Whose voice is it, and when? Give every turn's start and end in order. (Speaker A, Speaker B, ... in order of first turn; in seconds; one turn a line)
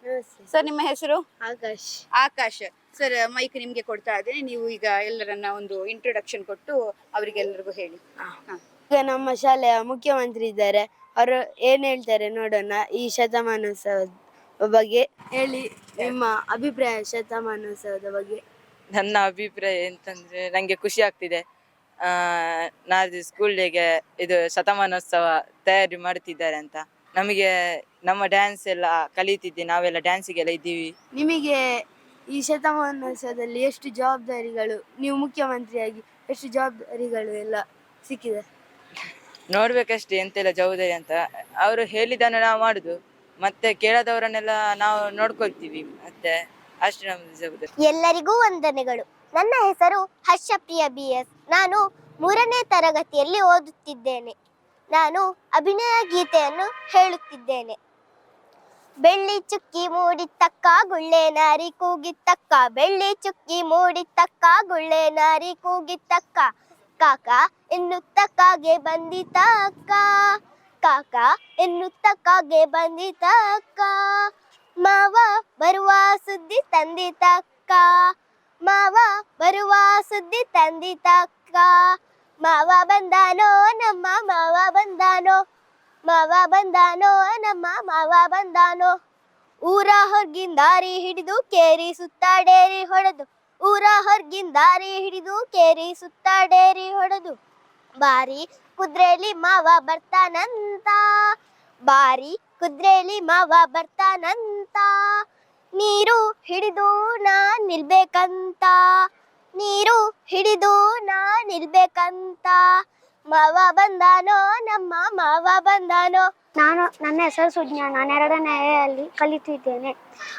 Speaker A: 0.1-0.6
Speaker B: 0.5-1.2
Speaker A: 1.4-2.0
Speaker B: 2.2-8.6
Speaker A: 8.9-14.1
Speaker A: 14.6-18.4
Speaker C: 18.9-21.4
Speaker C: 22.0-27.5
Speaker C: 28.1-30.9
Speaker A: 31.1-31.6
Speaker A: 32.3-38.4
Speaker C: 39.5-47.7
Speaker D: 47.8-54.3
Speaker D: 54.9-57.8
Speaker D: 59.0-85.4
Speaker D: 86.1-88.9
Speaker D: 89.7-97.4
Speaker D: 98.0-105.2
Speaker D: 105.8-116.3
Speaker E: 116.6-119.9